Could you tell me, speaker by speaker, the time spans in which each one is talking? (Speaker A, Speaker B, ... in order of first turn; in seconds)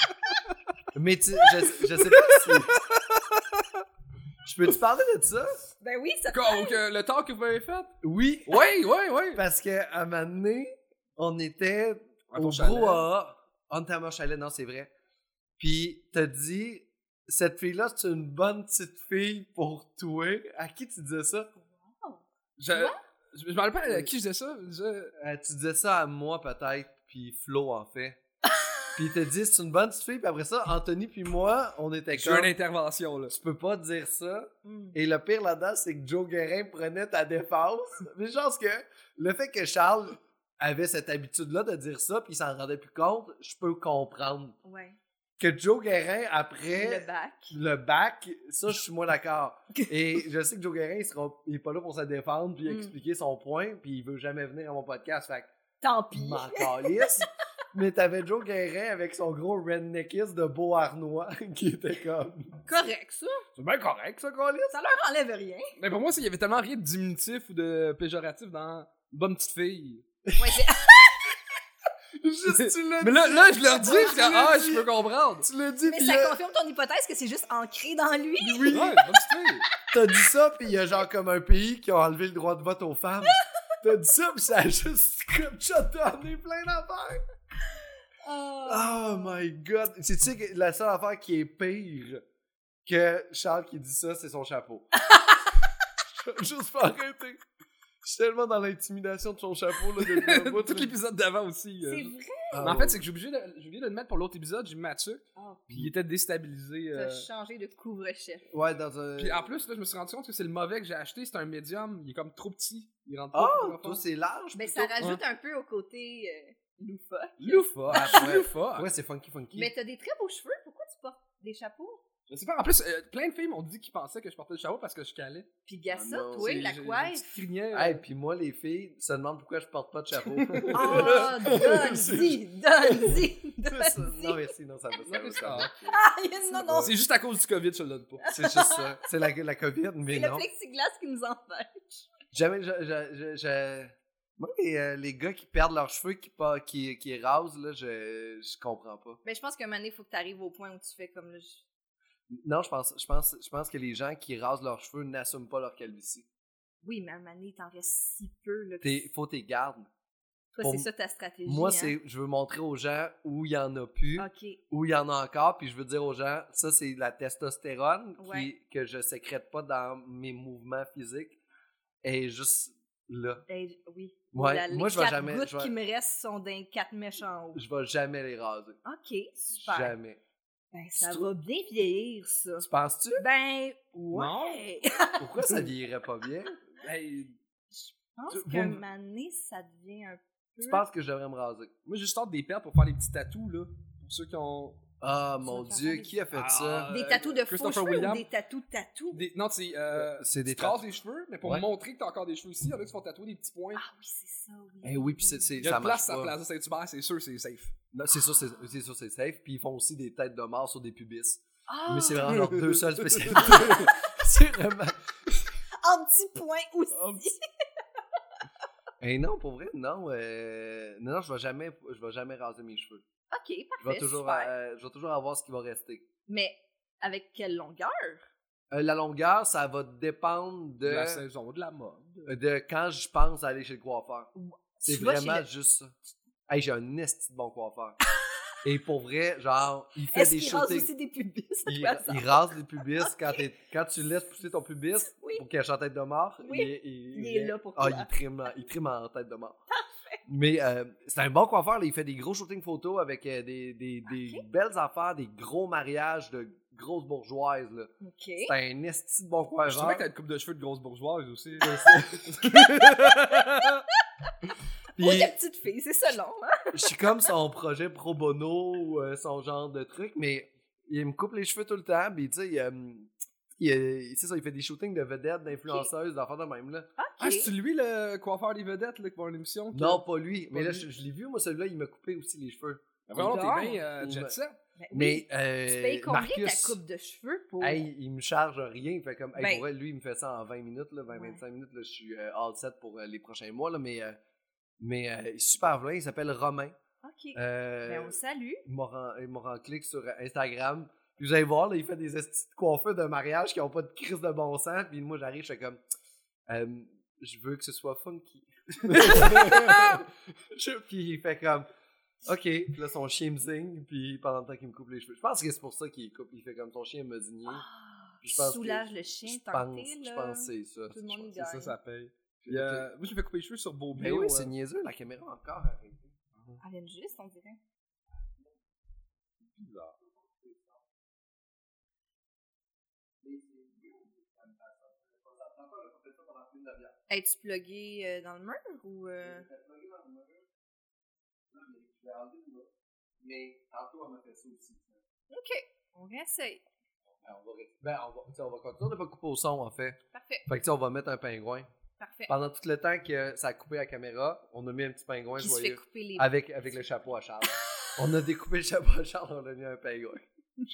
Speaker A: 0.9-2.8, 4.4-5.6, 8.0-8.7, 9.3-14.9, 15.6-21.5, 25.1-28.2, 28.9-32.5, 33.3-44.6, 45.4-55.5, 56.1-62.6, 63.6-64.8, 70.2-70.6, 72.2-74.9, 75.4-76.4, 78.4-79.0, 79.9-87.2, 88.7-92.2, 92.8-94.9, 96.1-97.4, 98.0-100.9, 102.5-103.0, 108.5-109.5, 113.3-115.1, 117.9-119.7, 125.9-126.7, 127.7-136.9, 138.3-140.4, 142.3-149.2, 152.3-156.3, 158.8-159.9, 160.6-160.9, 161.4-171.4, 172.0-173.4, 174.3-175.7, 177.5-178.8, 179.5-180.2, 181.0-181.3, 182.6-183.2, 185.2-186.6, 188.3-188.8, 190.6-191.7, 195.0-196.9, 199.9-200.8, 204.8-206.3, 207.9-215.3, 219.0-223.0, 223.8-226.1, 228.7-231.2, 232.2-234.3, 234.8-236.0, 236.5-238.0, 238.6-240.9, 241.7-249.5, 250.2-260.1, 261.6-262.5, 265.0-265.3, 266.7-276.9, 279.7-283.3, 284.0-284.4, 284.9-286.8, 287.6-294.2, 294.8-296.8, 297.3-305.8, 306.5-311.7, 312.2-317.7, 318.2-321.4, 322.4-322.9, 323.9-326.5, 328.2-328.5, 330.0-330.8, 333.2-337.0, 339.2-340.4, 341.5-345.0, 347.2-351.7, 352.3-360.3
Speaker B: 1.7-3.6, 6.3-7.9, 8.4-9.4, 12.3-13.0, 22.6-25.1, 32.1-33.3, 65.8-70.0, 72.5-75.5, 78.7-79.7, 100.0-107.2, 109.2-114.0, 117.4-118.9, 122.3-125.5, 126.3-128.0, 130.4-131.9, 135.0-135.7, 136.8-138.3, 184.1-184.6, 186.8-187.4, 191.8-194.8, 196.3-198.2, 199.1-203.8, 205.6-207.7, 212.3-213.9, 230.8-232.2, 259.6-263.8, 277.2-280.9, 283.1-284.6, 308.8-310.0, 321.4-324.5, 329.5-329.9
Speaker C: 5.8-6.8, 21.6-23.0, 28.4-29.0, 34.6-35.0, 44.6-45.0, 46.7-47.5, 52.7-52.9, 55.8-57.3, 62.6-63.4, 64.7-65.7, 70.4-71.3, 75.8-79.0, 88.2-89.4, 95.0-95.5, 101.8-102.7, 105.3-105.7, 106.9-108.5, 114.5-118.3, 119.5-122.0, 125.7-127.3, 130.7-134.5, 135.9-136.9, 138.2-139.0, 140.1-142.1, 149.2-151.6, 156.8-159.1, 160.5-161.9, 164.2-164.6, 168.2-168.5, 173.5-177.6, 178.8-179.9, 180.7-185.5, 187.7-190.8, 195.4-196.2, 196.9-199.2, 203.8-205.5, 211.7-212.4, 213.4-213.9, 215.7-217.4, 223.3-224.5, 226.3-228.3, 234.3-235.4, 240.1-243.4, 245.0-245.4, 246.4-248.1, 249.7-250.2, 254.1-254.4, 258.0-258.5, 261.6-261.9, 264.9-267.0, 275.6-275.9, 277.0-277.5, 283.2-283.9, 284.8-287.9, 289.4-289.6, 291.1-291.4, 297.0-298.6, 317.4-321.8, 326.6-327.6, 337.1-339.5, 345.3-346.6, 350.1-350.4, 352.0-352.3, 355.4-356.3